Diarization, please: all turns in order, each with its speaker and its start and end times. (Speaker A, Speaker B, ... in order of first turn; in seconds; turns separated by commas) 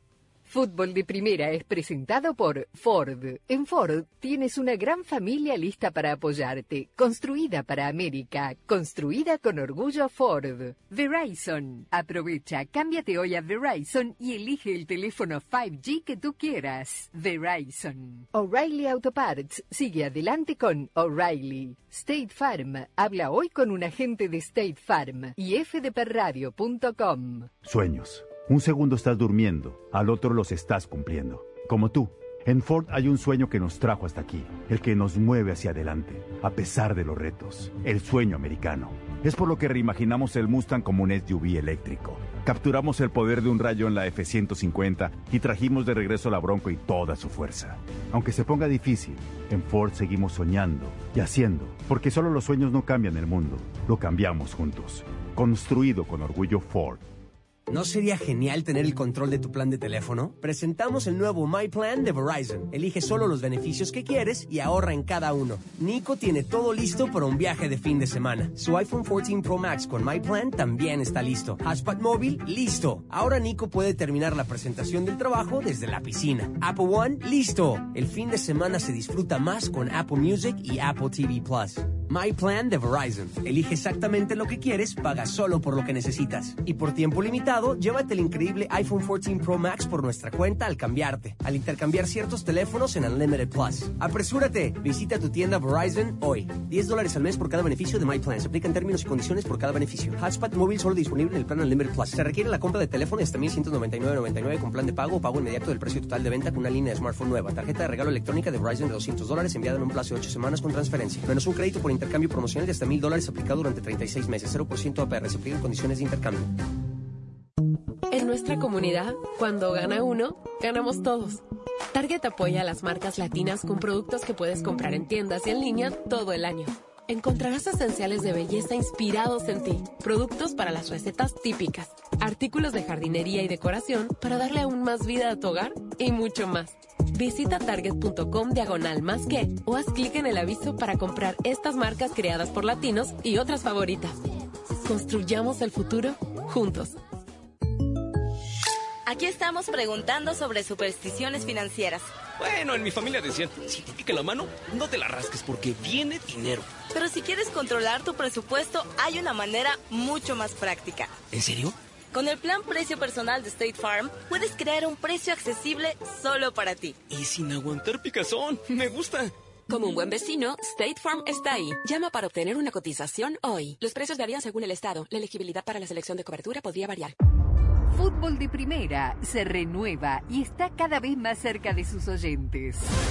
Speaker A: 0.5-27.5, Speaker B: 27.6-57.0, Speaker C: 57.7-116.5, Speaker D: 118.1-121.4, Speaker D: 121.9-144.2, Speaker D: 144.7-147.0, Speaker E: 149.1-152.1, Speaker F: 152.4-156.8, Speaker E: 156.9-161.1, Speaker F: 161.3-161.7, Speaker E: 162.1-166.9, Speaker F: 167.1-169.3, Speaker G: 169.7-177.1, Speaker A: 177.9-182.9